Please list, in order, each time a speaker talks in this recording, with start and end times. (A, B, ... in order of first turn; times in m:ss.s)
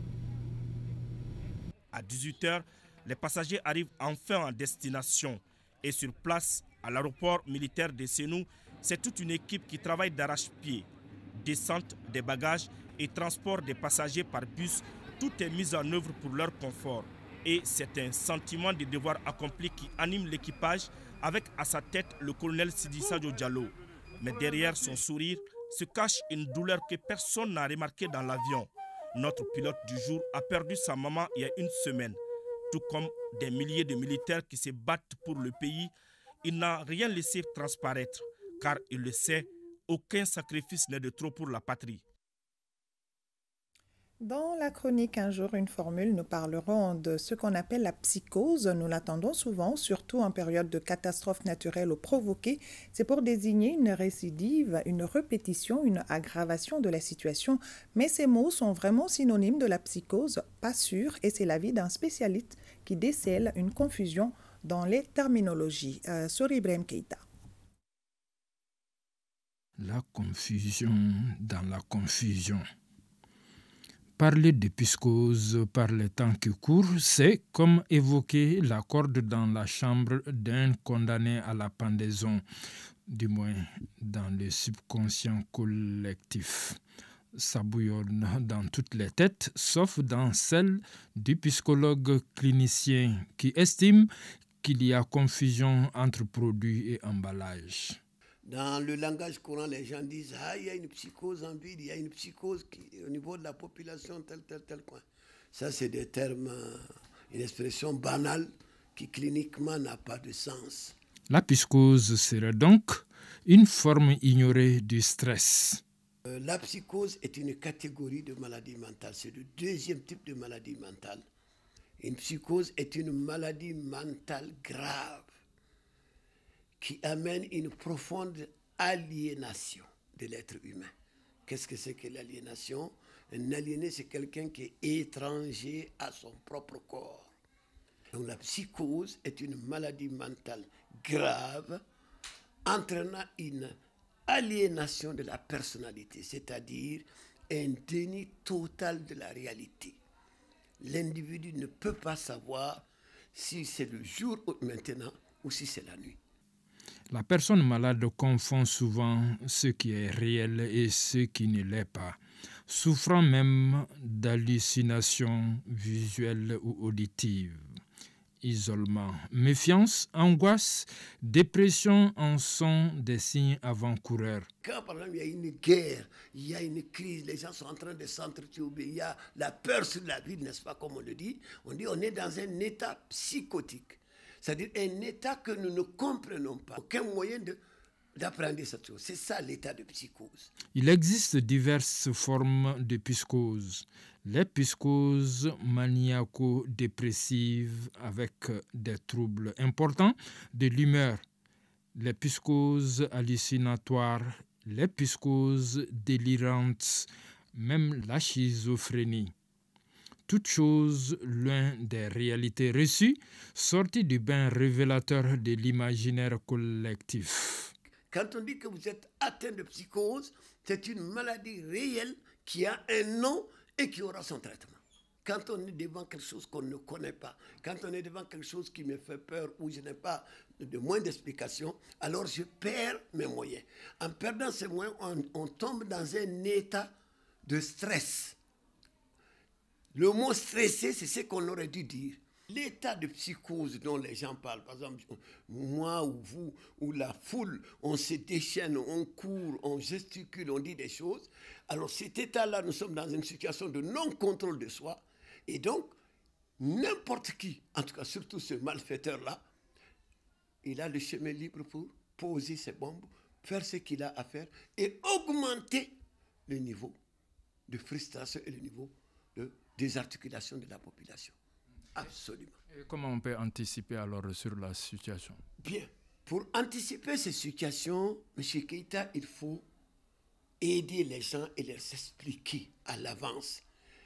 0:01.9-0:42.0 A
0:44.2-1:07.2 B
1:09.8-1:12.6 C
1:14.2-1:22.4 C
1:23.1-1:26.7 C
1:27.4-1:34.1 C
1:34.6-1:38.0 C
1:38.4-1:51.0 D
1:51.3-1:55.8 C
1:56.2-2:01.2 D
2:02.0-2:05.3 D
2:06.8-2:10.9 D
2:11.4-2:17.3 D
2:18.1-2:21.8 D
2:22.6-2:23.7 D
2:24.3-2:30.0 D
2:30.8-2:36.2 D
2:37.1-2:42.2 C
2:42.7-2:47.6 C
2:48.4-2:54.5 C
2:54.6-3:07.6 D
3:08.2-3:10.5 D
3:10.8-3:21.2 C
3:22.0-3:27.0 C
3:27.6-3:29.3 C
3:30.3-3:37.7 C
3:38.1-3:58.4 D
3:59.9-4:15.9 D
4:16.6-4:19.4 D
4:20.6-4:25.9 D
4:26.5-4:27.0 D
4:27.7-4:31.3 D
4:32.0-4:32.6 D
4:32.9-4:35.4 C
4:35.6-4:39.6 D
4:40.6-4:43.6 D